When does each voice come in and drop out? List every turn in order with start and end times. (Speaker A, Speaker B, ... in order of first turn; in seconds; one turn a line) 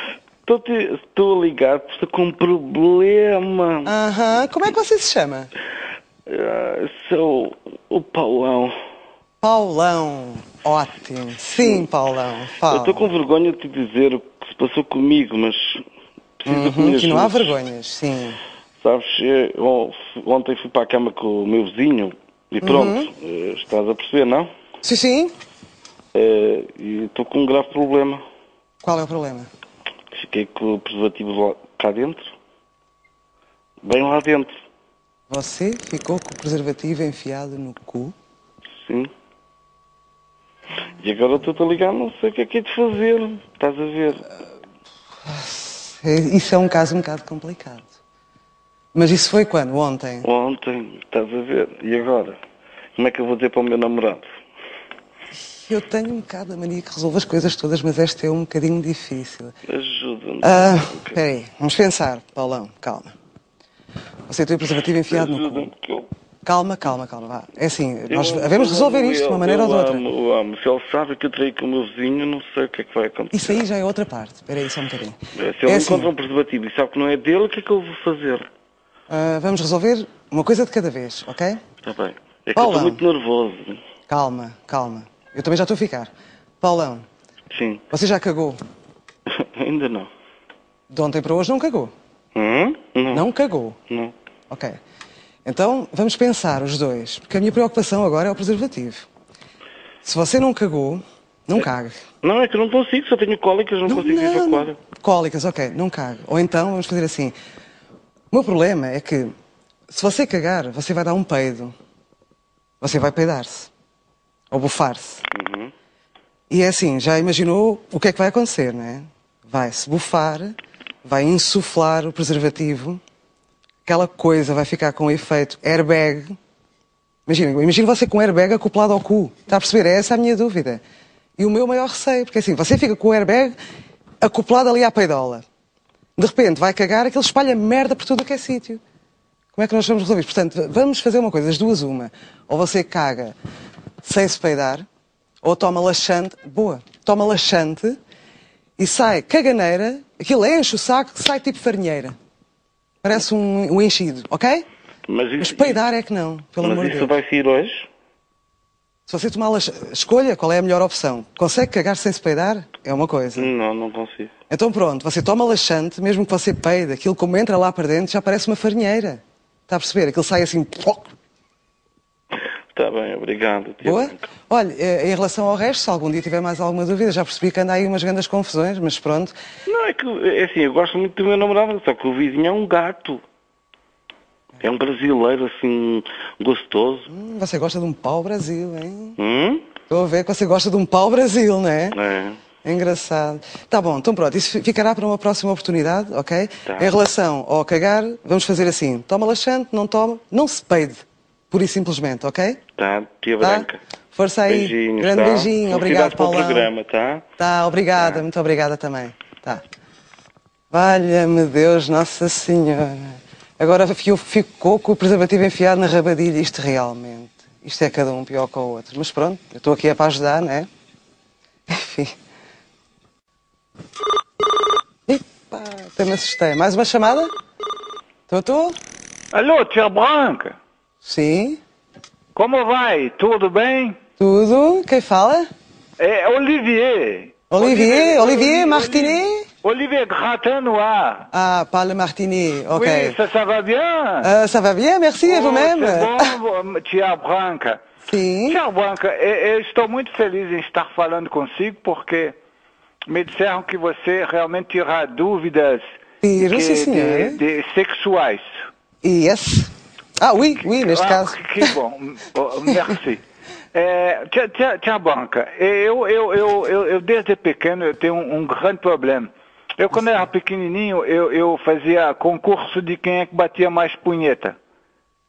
Speaker A: 0.5-3.9
Speaker B: 3.9-5.5
Speaker A: 6.3-8.8
Speaker B: 9.4-13.1
Speaker A: 12.7-15.8
Speaker A: 16.4-17.5
Speaker B: 16.5-18.4
Speaker A: 18.8-24.5
Speaker B: 22.6-23.1
Speaker B: 24.8-25.3
Speaker A: 26.1-28.2
Speaker B: 28.8-29.5
Speaker A: 30.1-32.3
Speaker A: 33.8-34.5
Speaker B: 35.3-38.1
Speaker A: 38.8-39.1
Speaker A: 41.0-44.3
Speaker B: 45.3-47.9
Speaker B: 48.9-50.3
Speaker A: 50.2-52.4
Speaker A: 53.0-54.3
Speaker B: 55.5-59.5
Speaker A: 59.7-61.2
Speaker B: 60.4-63.1
Speaker B: 64.3-65.7
Speaker A: 65.1-66.1
Speaker B: 66.5-70.0
Speaker A: 68.1-73.6
Speaker B: 73.3-76.1
Speaker A: 75.4-78.5
Speaker B: 79.1-81.6
Speaker A: 81.8-83.8
Speaker B: 82.5-83.0
Speaker B: 84.1-87.1
Speaker A: 87.5-87.8
Speaker B: 87.9-88.6
Speaker A: 89.3-90.1
Speaker B: 90.9-91.9
Speaker A: 92.3-93.2
Speaker B: 93.1-93.8
Speaker A: 93.9-94.1
Speaker B: 94.5-94.8
Speaker B: 95.5-99.1
Speaker B: 100.0-102.0
Speaker A: 102.2-104.8
Speaker B: 103.9-107.3
Speaker B: 108.3-109.3
Speaker B: 109.9-111.7
Speaker B: 112.8-113.7
Speaker B: 114.5-115.3
Speaker A: 115.3-115.7
Speaker B: 116.5-123.0
Speaker B: 123.9-126.3
Speaker B: 127.3-130.8
Speaker B: 131.4-133.6
Speaker B: 134.2-135.4
Speaker B: 136.2-138.8
Speaker B: 139.5-143.3
Speaker B: 144.0-144.9
Speaker B: 145.4-148.0
Speaker B: 148.8-152.2
Speaker B: 153.0-154.7
Speaker A: 155.1-155.8
Speaker B: 155.4-157.1
Speaker A: 156.6-157.9
Speaker B: 159.1-163.5
Speaker A: 163.4-164.3
Speaker B: 164.5-171.1
Speaker A: 172.3-174.3
Speaker B: 173.8-179.3
Speaker A: 179.7-183.2
Speaker A: 184.6-187.1
Speaker B: 187.1-189.2
Speaker A: 189.2-189.7
Speaker B: 189.9-192.0
Speaker A: 191.9-192.4
Speaker B: 192.6-202.6
Speaker A: 196.7-196.9
Speaker A: 202.8-203.8
Speaker B: 203.4-206.7
Speaker A: 204.5-207.3
Speaker B: 207.4-209.6
Speaker B: 210.7-220.7
Speaker B: 221.7-222.2
Speaker B: 225.1-227.3
Speaker B: 228.3-228.8
Speaker C: 229.3-230.6
Speaker B: 231.0-231.6
Speaker C: 232.3-234.0
Speaker B: 234.2-235.5
Speaker C: 236.0-241.3
Speaker B: 237.5-239.5
Speaker B: 241.3-243.2
Speaker C: 242.7-244.3
Speaker B: 244.2-246.4
Speaker C: 245.2-247.8
Speaker B: 248.1-248.6
Speaker C: 248.5-252.3
Speaker C: 253.1-255.9
Speaker B: 256.2-257.4
Speaker C: 256.4-258.6
Speaker B: 259.0-261.8
Speaker C: 260.7-263.2
Speaker C: 263.7-274.6